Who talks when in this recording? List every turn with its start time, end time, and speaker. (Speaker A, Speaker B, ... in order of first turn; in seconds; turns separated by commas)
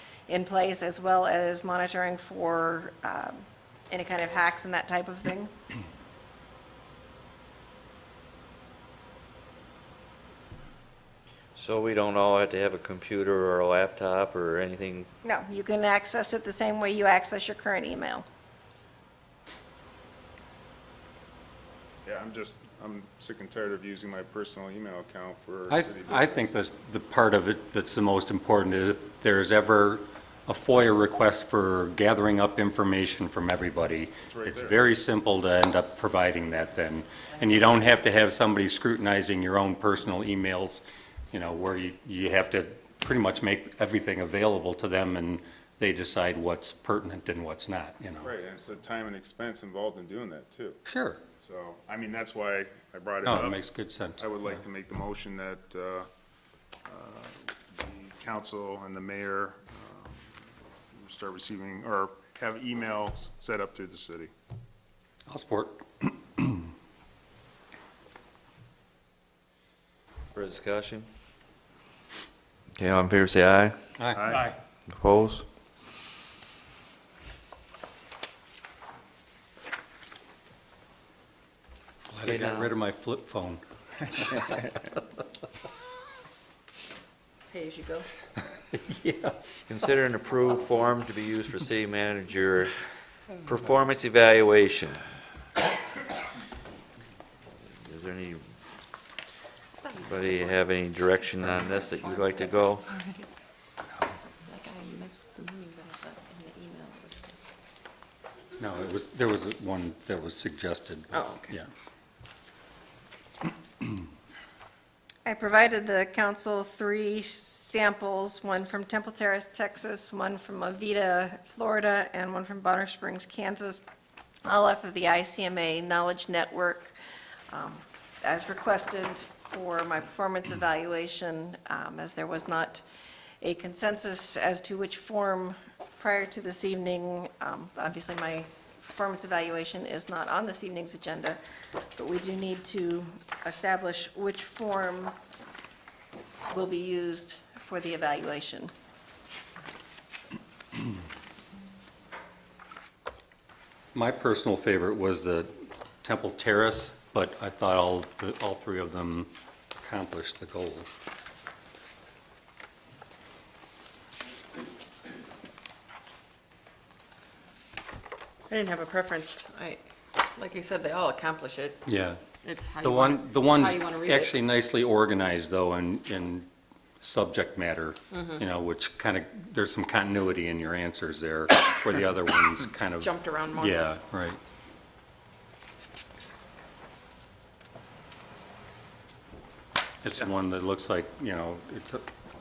Speaker A: 0.3-5.5, Speaker B: 11.6-15.1, Speaker A: 15.2-18.2, Speaker C: 22.1-26.5, Speaker D: 25.7-48.3, Speaker C: 34.2-34.8, Speaker C: 48.2-50.8, Speaker D: 50.9-51.2, Speaker C: 51.4-53.6, Speaker D: 53.2-54.5, Speaker C: 54.2-56.1, Speaker C: 56.9-60.3, Speaker C: 60.9-64.3, Speaker D: 65.3-66.7, Speaker B: 70.3-71.1, Speaker B: 72.8-73.8, Speaker D: 74.0-74.3, Speaker C: 74.1-74.5, Speaker B: 74.9-75.5, Speaker D: 82.1-84.7, Speaker B: 82.2-82.7, Speaker E: 87.5-88.1, Speaker D: 88.5-89.7, Speaker B: 89.7-92.9, Speaker B: 93.5-95.1, Speaker B: 97.7-98.5, Speaker E: 99.9-100.2, Speaker B: 100.0-102.9, Speaker E: 102.0-103.3, Speaker E: 104.4-107.4, Speaker D: 108.6-111.7, Speaker E: 111.1-111.5, Speaker A: 115.2-123.9, Speaker A: 124.5-127.0, Speaker A: 127.5-132.8, Speaker A: 133.4-141.4, Speaker A: 141.9-145.2, Speaker A: 146.5-148.7, Speaker D: 153.9-155.5, Speaker D: 156.0-160.9, Speaker E: 168.5-169.8, Speaker E: 170.3-171.8, Speaker D: 171.8-172.2, Speaker E: 172.4-174.3, Speaker D: 172.8-176.5, Speaker D: 177.0-184.4, Speaker E: 178.1-178.4, Speaker E: 183.0-183.9, Speaker D: 190.0-192.1